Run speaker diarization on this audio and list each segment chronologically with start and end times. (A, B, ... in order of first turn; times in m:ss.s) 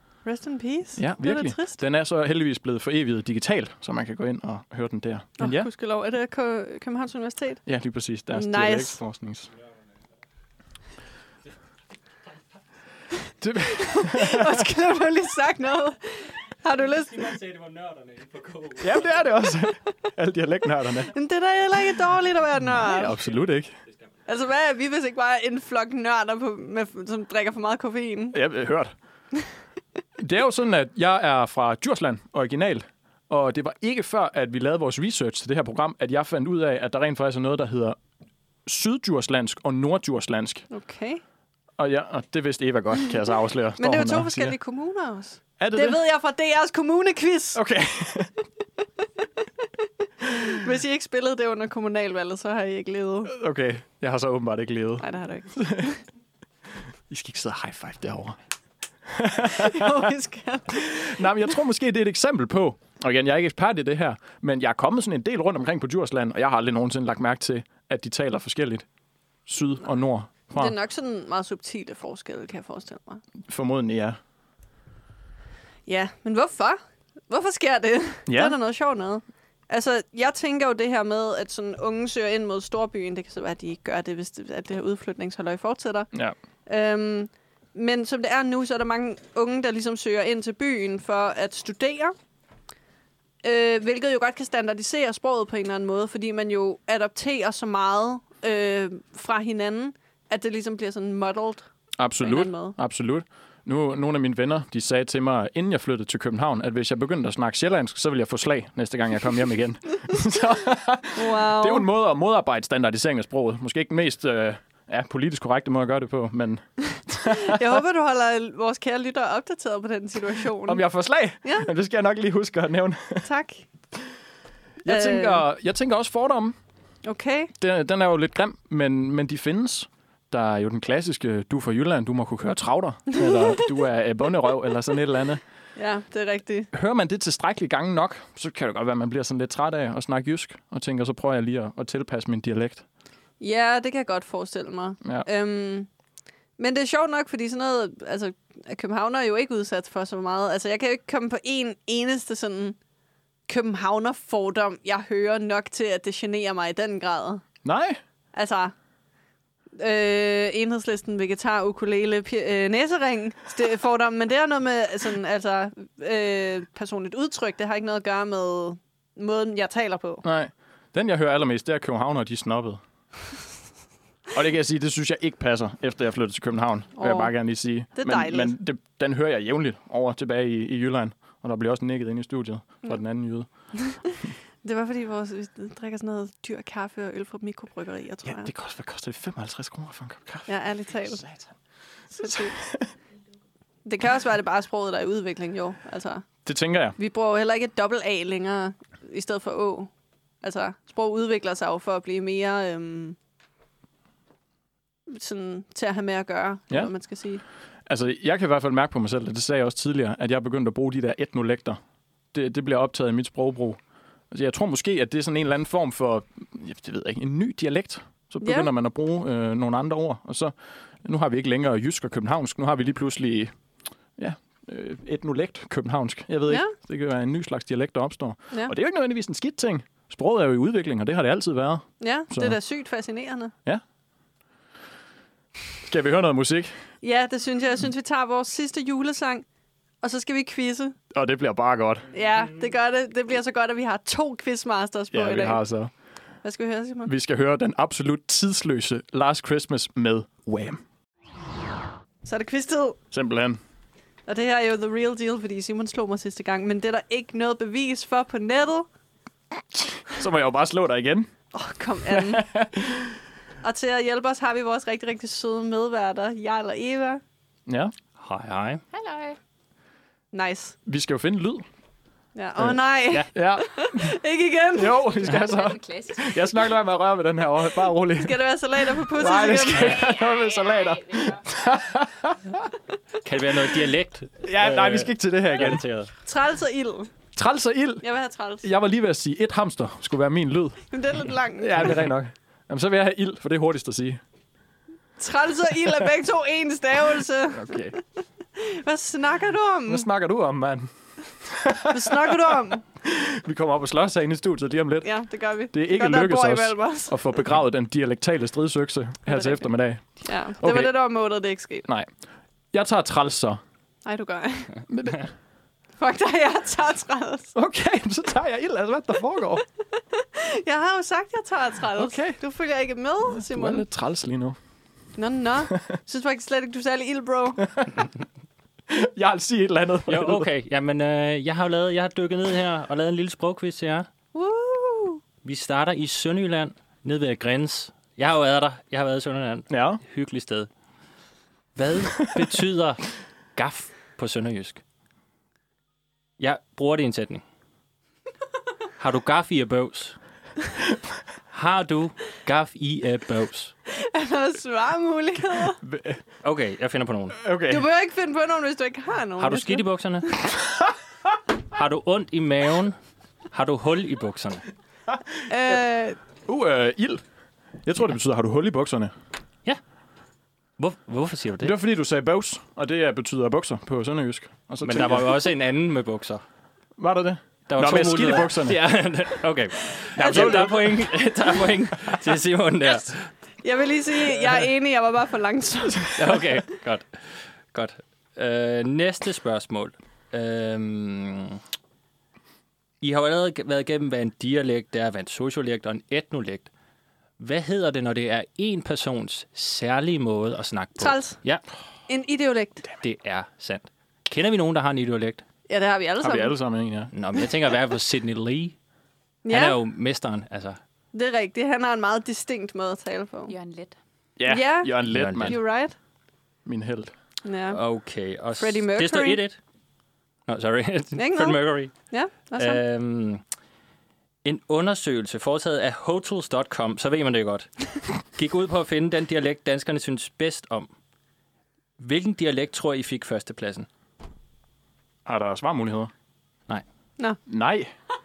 0:00.2-0:01.8 A
0:01.0-0:05.7 B
0:05.4-0:07.6 A
0:07.7-0:09.5 B
0:08.3-0:09.0 A
0:13.4-0:14.6 B
0:13.7-0:17.4 A
0:17.4-0:18.8 C
0:18.8-0:21.1 B
0:21.1-0:23.2 A
0:22.7-0:23.8 B
0:24.3-0:28.4 A
0:28.3-0:28.9 B
0:30.2-0:38.0 B
0:38.7-0:40.7 B
0:40.7-0:41.2 A
0:41.8-0:44.6 B
0:43.8-0:47.6 A
0:45.6-0:46.0 B
0:47.6-0:48.3 B
0:50.3-0:53.3 A
0:53.3-0:55.9 B
0:55.0-0:56.0 A
0:57.1-0:58.4 B
0:59.1-1:00.1 B
0:59.5-1:01.3 A
1:00.7-1:08.8 B
1:09.5-1:10.7 B
1:10.5-1:13.2 A
1:13.5-1:14.2 B
1:15.9-1:26.1 A
1:18.3-1:18.6 B
1:26.7-1:32.2 A
1:33.4-1:41.7 A
1:42.0-1:57.8 B
1:42.2-1:42.8 A
1:51.2-1:51.9 A
1:57.2-2:00.8 A
2:00.7-2:03.3 B
2:01.4-2:01.7 A
2:03.2-2:03.7 A
2:04.8-2:06.6 B
2:04.8-2:05.4 A
2:07.0-2:07.5 A
2:07.6-2:15.4 B
2:15.8-2:16.7 A
2:16.7-2:22.8 B
2:23.4-2:25.9 A
2:26.6-2:32.8 A
2:33.5-2:37.4 A
2:37.6-2:38.0 B
2:38.3-2:38.7 A
2:39.8-2:50.2 A
2:50.2-2:52.8 B
2:54.3-3:03.5 B
2:57.0-2:57.3 A
2:58.0-2:58.6 A
3:03.8-3:04.0 A
3:04.6-3:08.5 A
3:08.2-3:11.5 B
3:10.5-3:11.2 A
3:12.1-3:12.6 A
3:12.2-3:12.9 B
3:13.8-3:16.3 A
3:16.4-3:17.0 B
3:17.0-3:19.9 A
3:20.4-3:23.2 A
3:25.1-3:27.4 A
3:27.9-3:31.8 B
3:32.3-3:33.8 B
3:34.3-3:40.5 B
3:38.4-3:38.7 A
3:41.0-3:43.5 B
3:44.2-3:52.6 B
3:46.5-3:46.7 A
3:52.0-3:53.5 A
3:55.9-3:56.7 B
3:57.0-3:59.4 A
4:00.0-4:01.0 A
4:01.1-4:02.1 B
4:02.1-4:05.6 A
4:05.1-4:05.9 B
4:06.4-4:07.1 A
4:07.1-4:10.8 B
4:12.2-4:13.0 A
4:13.1-4:13.6 B
4:14.3-4:18.9 A
4:19.7-4:21.3 B
4:21.5-4:22.5 A
4:22.1-4:23.1 B
4:23.6-4:27.2 A
4:27.7-4:27.9 B
4:28.2-4:28.8 C
4:28.9-4:29.4 D
4:30.3-4:30.8 A
4:30.9-4:31.6 B
4:32.4-4:35.1 A
4:33.3-4:34.2 B
4:34.7-4:38.4 B
4:35.2-4:36.6 D
4:38.2-4:40.1 A
4:39.1-4:42.7 B
4:39.8-4:41.4 D
4:43.2-4:46.1 C
4:44.4-4:45.9 B
4:46.3-4:47.1 A
4:47.4-4:48.0 B
4:48.0-4:48.6 A
4:48.6-4:50.9 B
4:50.9-4:52.0 A
4:51.6-4:54.2 B
4:55.2-4:58.0 A
4:57.5-4:58.0 B
4:58.6-5:00.1 A
4:59.9-5:05.1 B
5:01.9-5:02.8 A
5:05.0-5:07.2 A
5:05.7-5:10.0 B
5:09.3-5:09.7 A
5:10.2-5:11.9 A
5:10.6-5:10.9 B
5:12.7-5:13.6 B
5:14.0-5:14.8 A
5:14.9-5:15.3 B
5:16.0-5:17.6 A
5:17.6-5:19.6 B
5:20.1-5:23.9 A
5:22.0-5:22.4 B
5:23.3-5:24.6 B
5:25.2-5:27.7 A
5:27.7-5:28.1 B
5:28.9-5:30.5 B
5:30.1-5:34.1 C
5:34.4-5:35.2 A
5:35.4-5:40.7 C
5:39.7-5:40.0 B
5:41.8-5:44.8 C
5:46.4-5:47.4 C
5:49.0-5:50.2 C
5:51.5-5:53.7 C
5:53.9-5:55.8 A
5:55.8-5:56.2 B
5:56.4-5:57.4 C
5:57.4-5:57.9 B
5:57.7-5:59.8 A
5:59.4-6:00.4 C
6:01.7-6:03.0 C
6:03.5-6:04.7 C
6:05.5-6:06.2 A
6:06.5-6:07.2 B
6:07.8-6:09.1 B
6:10.8-6:11.7 C
6:11.6-6:15.4 B
6:14.8-6:16.4 C
6:17.0-6:18.8 B
6:17.7-6:23.2 C
6:20.1-6:21.0 B
6:20.2-6:20.9 A
6:23.6-6:26.4 A
6:26.2-6:31.6 C
6:33.0-6:36.7 C
6:37.4-6:41.6 C
6:41.0-6:41.4 A
6:42.1-6:42.9 A
6:43.0-6:45.4 C
6:45.7-6:46.6 A
6:46.2-6:47.1 B
6:47.1-6:48.8 C
6:49.4-6:49.8 A
6:49.5-6:50.8 C
6:51.1-6:53.5 A
6:53.5-6:54.0 D
6:54.4-6:55.6 B
6:54.5-6:56.0 A
6:55.1-6:55.6 C
6:56.6-6:57.1 B
6:57.4-6:57.8 A
6:57.7-6:59.6 C
6:58.6-6:59.4 A
7:00.5-7:01.9 C
7:01.1-7:02.8 A
7:02.6-7:03.4 C
7:04.4-7:10.9 C
7:12.0-7:13.9 C
7:15.3-7:16.1 B
7:17.5-7:17.9 B